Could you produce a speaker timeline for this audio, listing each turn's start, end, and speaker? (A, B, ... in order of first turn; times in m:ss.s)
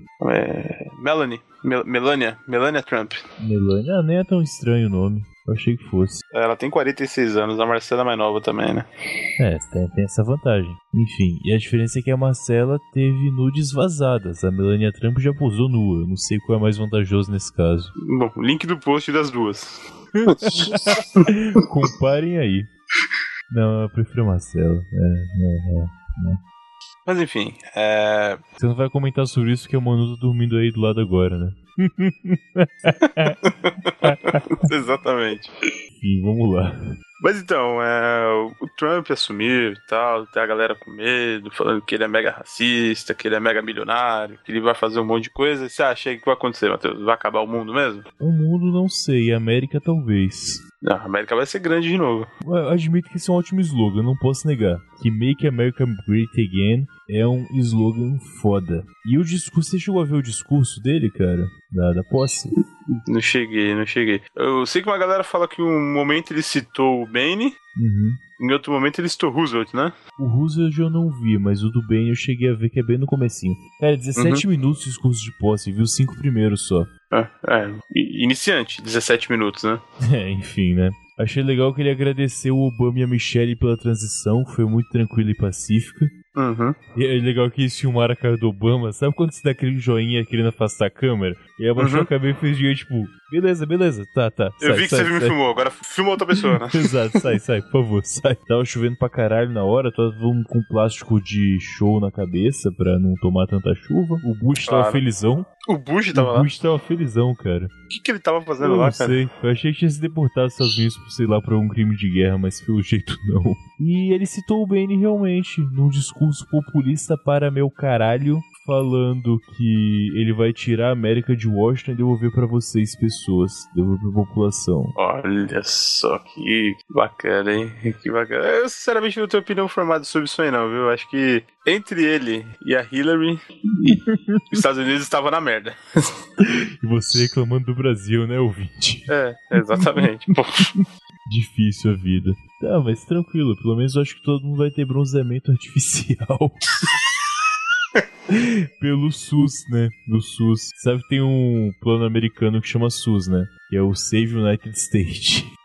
0:00.2-0:03.2 A
0:03.4-0:06.2 B
0:06.3-0:08.9 A
0:09.4-0:17.9 B
0:18.0-0:21.3 A
0:20.1-0:22.7 B
0:23.5-0:26.4 B
0:27.1-0:28.4 A
0:28.6-0:33.4 B
0:33.0-0:35.5 A
0:34.0-0:34.4 B
0:35.9-0:36.8 B
0:37.2-0:48.1 A
0:48.2-0:50.6 B
0:50.8-0:52.3 A
0:52.4-1:02.5 B
1:03.0-1:07.6 A
1:07.8-1:08.2 B
1:08.4-1:10.0 A
1:10.2-1:16.9 B
1:14.2-1:14.4 A
1:17.1-1:19.8 A
1:20.0-1:26.1 B
1:26.3-1:26.8 A
1:26.9-1:35.4 B
1:31.8-1:32.1 A
1:34.6-1:36.9 A
1:36.7-1:45.5 B
1:44.6-1:45.0 A
1:45.7-1:46.5 A
1:46.1-1:47.7 B
1:47.9-1:49.2 A
1:48.6-2:04.9 B
2:05.0-2:16.0 A
2:13.9-2:14.6 B
2:16.4-2:20.1 B
2:19.1-2:20.7 A
2:20.7-2:26.6 B
2:28.3-2:35.5 B